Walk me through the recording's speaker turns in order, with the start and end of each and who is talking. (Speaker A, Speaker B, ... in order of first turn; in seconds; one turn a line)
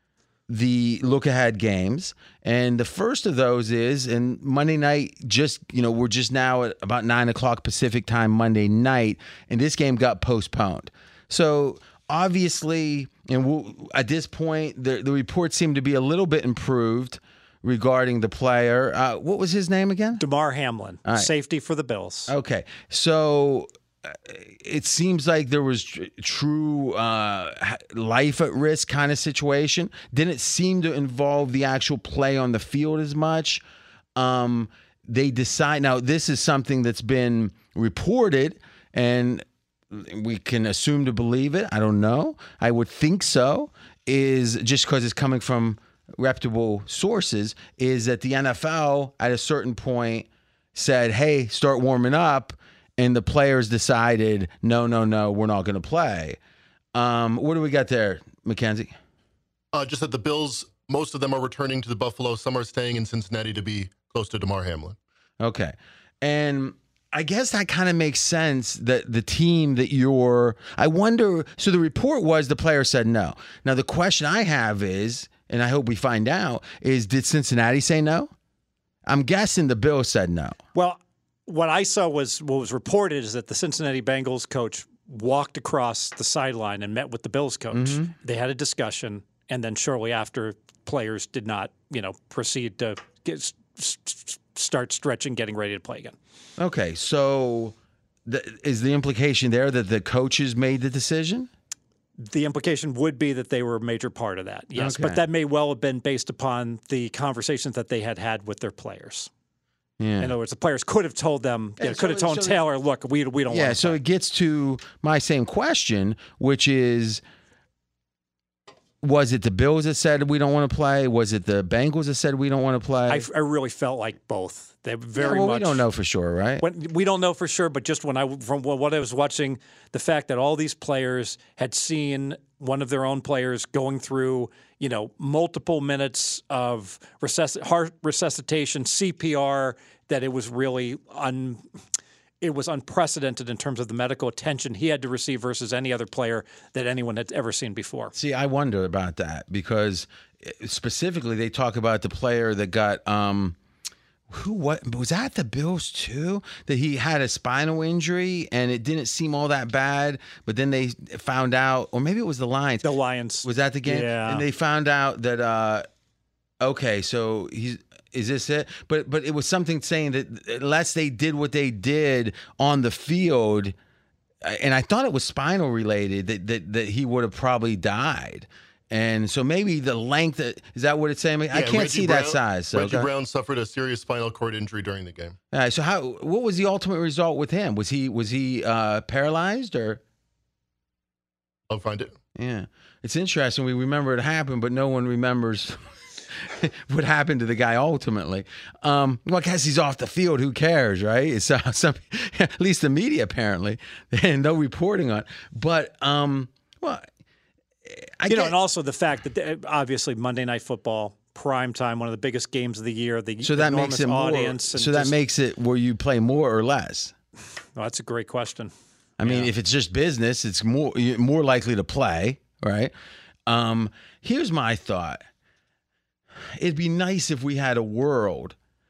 Speaker A: 0.5-20.2
Speaker B: 20.2-22.3
Speaker A: 22.3-33.6
Speaker A: 34.2-56.4
Speaker A: 56.9-58.9
Speaker C: 59.7-65.0
Speaker A: 65.4-78.3
Speaker A: 79.1-80.6
Speaker B: 80.7-96.2
Speaker A: 87.7-88.1
Speaker A: 96.6-97.8
Speaker A: 98.3-101.5
Speaker B: 102.2-109.3
Speaker A: 104.8-105.2
Speaker A: 110.0-110.3
Speaker B: 110.2-114.0
Speaker A: 111.8-112.6
Speaker A: 113.5-117.2
Speaker A: 119.0-123.3
Speaker B: 123.1-125.8
Speaker A: 125.2-126.6
Speaker B: 126.6-141.6
Speaker B: 142.4-148.1
Speaker A: 148.2-153.6
Speaker A: 154.3-162.9
Speaker B: 162.8-164.5
Speaker A: 163.4-165.8
Speaker A: 166.6-173.8
Speaker A: 174.4-183.1
Speaker C: 181.5-185.4
Speaker A: 185.5-190.0
Speaker C: 191.7-192.1
Speaker A: 192.4-195.8
Speaker A: 196.3-207.1
Speaker A: 207.8-208.6
Speaker B: 208.3-215.2
Speaker A: 213.4-217.1
Speaker B: 217.8-218.7
Speaker A: 219.2-222.9
Speaker B: 219.2-219.5
Speaker A: 223.5-225.2
Speaker A: 226.6-228.6